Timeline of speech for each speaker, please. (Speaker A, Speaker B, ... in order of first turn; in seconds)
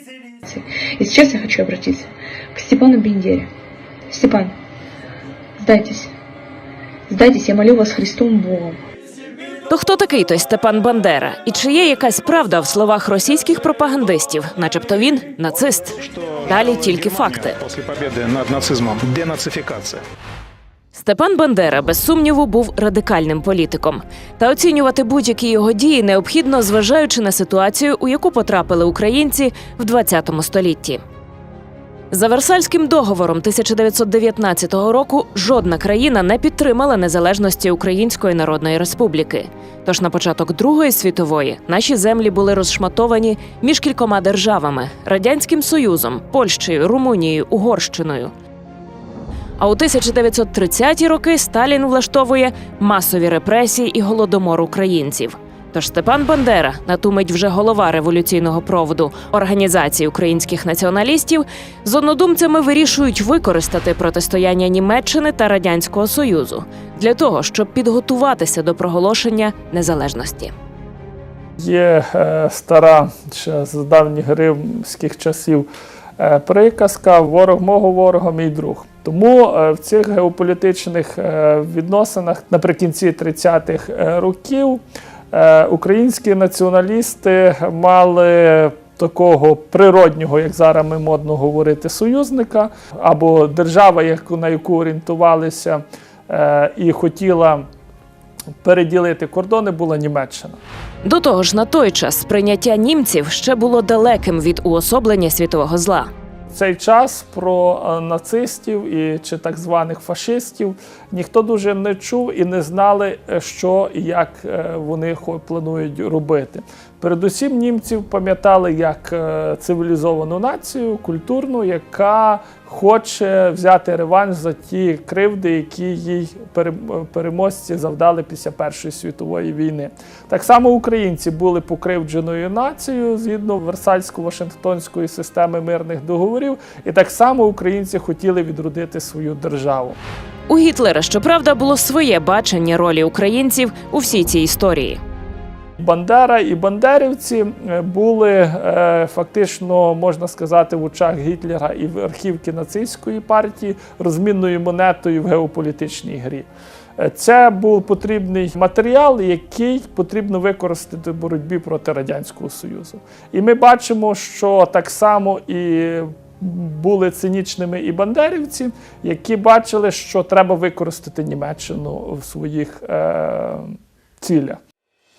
Speaker A: 0.5-3.5, 4.1-4.5, 5.6-6.1, 7.1-8.8
Speaker B: 9.7-17.6, 20.9-31.0, 32.1-48.3, 49.6-70.5, 101.0-106.1, 140.5-145.0
Speaker C: 16.0-20.0
Speaker D: 71.6-84.8, 85.3-97.7, 98.6-100.6, 106.5-140.0, 145.8-156.5, 157.0-174.6